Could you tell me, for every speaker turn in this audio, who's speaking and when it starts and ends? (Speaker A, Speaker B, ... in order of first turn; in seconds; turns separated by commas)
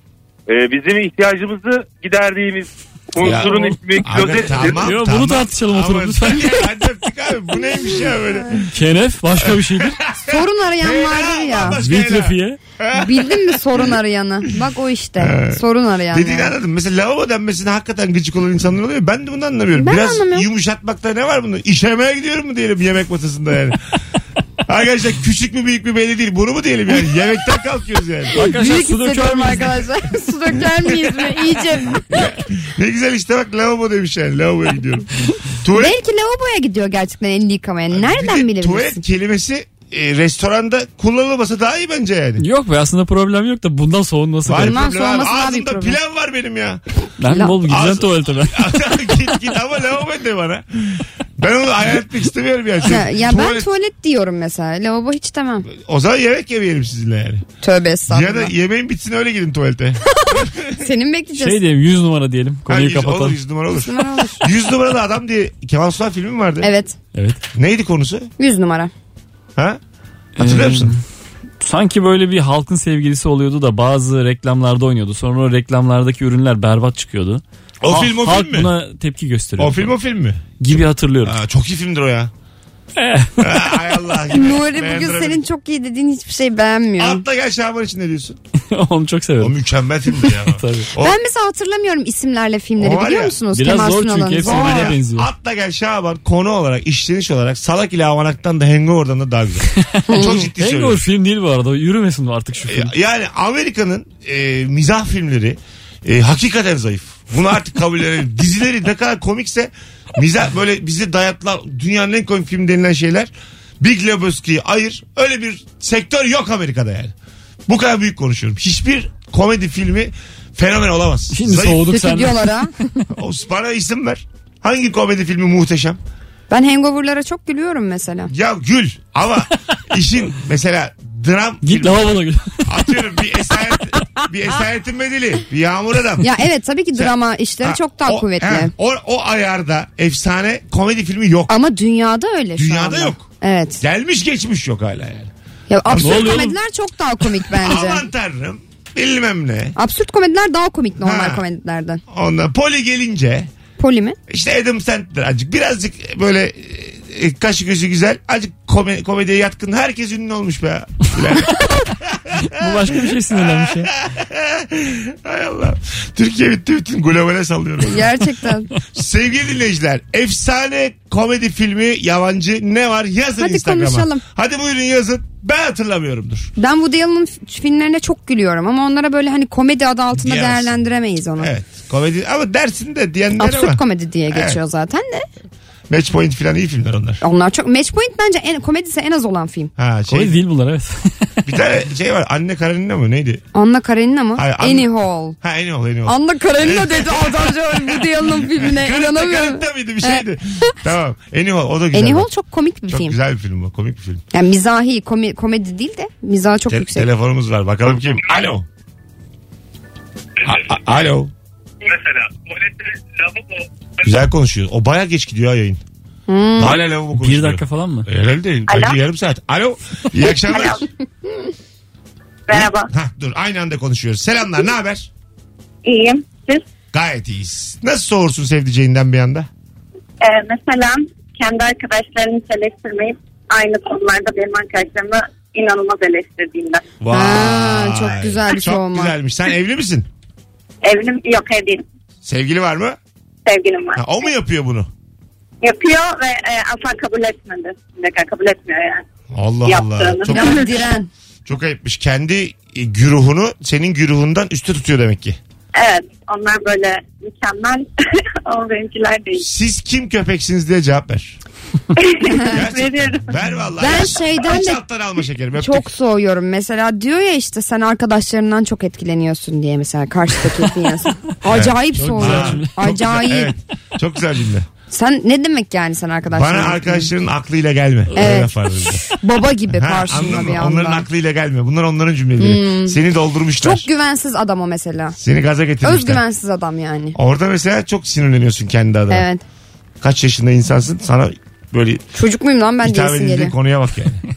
Speaker A: 0.5-4.8, Speaker B: 3.2-8.7, Speaker C: 4.8-6.6, Speaker C: 8.7-10.0, Speaker B: 9.4-13.8, Speaker D: 10.2-11.8, Speaker C: 11.8-12.6, Speaker D: 12.9-16.5, Speaker B: 15.2-23.9, Speaker D: 19.8-20.5, Speaker B: 24.6-28.4, Speaker D: 28.3-32.2, Speaker C: 28.3-29.9, Speaker B: 30.9-35.1, Speaker B: 35.6-36.0, Speaker D: 35.7-39.0, Speaker B: 37.9-42.4, Speaker C: 42.4-44.8, Speaker B: 44.5-46.8, Speaker D: 44.5-46.0, Speaker C: 47.2-48.7, Speaker D: 47.3-47.5, Speaker B: 47.6-53.7, Speaker D: 52.8-55.7, Speaker B: 55.7-57.5, Speaker D: 57.6-58.5, Speaker B: 58.1-60.8, Speaker D: 60.2-61.6, Speaker C: 61.4-63.4, Speaker B: 62.7-66.7, Speaker D: 63.7-64.4, Speaker D: 66.6-67.0, Speaker C: 67.1-67.4, Speaker B: 67.5-68.3, Speaker D: 68.4-68.9, Speaker B: 70.4-70.9, Speaker C: 70.4-71.0, Speaker C: 71.6-79.9, Speaker B: 77.8-78.7, Speaker B: 79.6-80.4, Speaker C: 80.6-81.3, Speaker B: 81.2-82.3, Speaker C: 83.0-83.6, Speaker B: 83.4-85.4, Speaker D: 84.3-87.2, Speaker B: 87.0-88.4, Speaker C: 88.7-89.6, Speaker B: 89.4-91.2, Speaker C: 90.2-90.9, Speaker D: 91.0-94.9, Speaker B: 92.8-93.4, Speaker C: 93.5-95.3, Speaker B: 94.4-101.0, Speaker C: 99.8-102.9, Speaker D: 100.1-100.4, Speaker B: 102.7-117.1, Speaker B: 117.7-121.9, Speaker C: 121.3-122.7, Speaker D: 121.9-122.8, Speaker B: 123.1-126.0, Speaker D: 126.5-128.3, Speaker B: 128.3-136.3, Speaker C: 131.6-132.6, Speaker D: 136.2-138.7, Speaker B: 136.9-141.5, Speaker D: 141.5-143.8, Speaker B: 142.6-143.3, Speaker B: 143.8-145.3, Speaker D: 145.7-148.0, Speaker B: 145.8-146.5, Speaker C: 146.0-146.5, Speaker B: 147.5-149.8, Speaker D: 149.8-152.0, Speaker B: 151.0-151.4, Speaker B: 152.1-153.5, Speaker D: 153.8-154.2, Speaker B: 154.3-168.2, Speaker C: 162.4-163.9, Speaker D: 167.8-168.7, Speaker B: 168.9-176.5, Speaker D: 173.4-174.2, Speaker D: 176.6-181.5, Speaker B: 180.2-180.8, Speaker B: 181.4-184.6, Speaker D: 183.4-185.3, Speaker B: 185.9-187.2, Speaker D: 187.2-189.7, Speaker B: 189.8-190.4, Speaker C: 190.1-191.3, Speaker B: 191.4-193.4, Speaker D: 193.5-195.4, Speaker B: 194.3-202.3, Speaker D: 196.1-200.2, Speaker D: 201.9-203.2, Speaker B: 202.9-204.2, Speaker D: 204.3-207.1, Speaker B: 206.7-208.7, Speaker B: 210.4-211.3, Speaker A: 211.9-212.5, Speaker B: 214.0-215.8, Speaker D: 216.3-216.8, Speaker B: 216.6-220.8, Speaker C: 217.2-218.1, Speaker E: 218.7-219.0, Speaker E: 220.3-220.8, Speaker E: 222.5-222.9, Speaker B: 222.5-225.1, Speaker E: 225.8-226.6, Speaker B: 226.9-229.5, Speaker E: 230.2-236.8, Speaker B: 237.0-240.1, Speaker D: 237.1-239.1, Speaker E: 240.8-241.8, Speaker B: 242.2-243.0, Speaker E: 243.4-244.1, Speaker B: 243.9-244.9, Speaker E: 245.6-249.0, Speaker B: 249.3-250.8, Speaker E: 249.7-250.7, Speaker D: 250.3-251.1, Speaker B: 251.4-255.4, Speaker E: 255.7-259.4, Speaker B: 259.4-261.4, Speaker E: 261.9-263.3, Speaker B: 262.4-265.9, Speaker D: 263.8-264.8, Speaker D: 265.6-273.5, Speaker B: 271.4-274.7, Speaker C: 272.0-272.7, Speaker D: 274.9-277.1, Speaker B: 276.3-279.0, Speaker D: 278.1-278.5, Speaker D: 279.1-281.1, Speaker B: 279.7-283.9, Speaker D: 282.4-283.0, Speaker D: 283.6-285.2, Speaker B: 285.2-286.2, Speaker D: 285.8-287.2, Speaker B: 287.1-289.3, Speaker D: 289.1-289.4, Speaker B: 290.0-292.0, Speaker D: 292.1-293.5, Speaker B: 292.8-294.2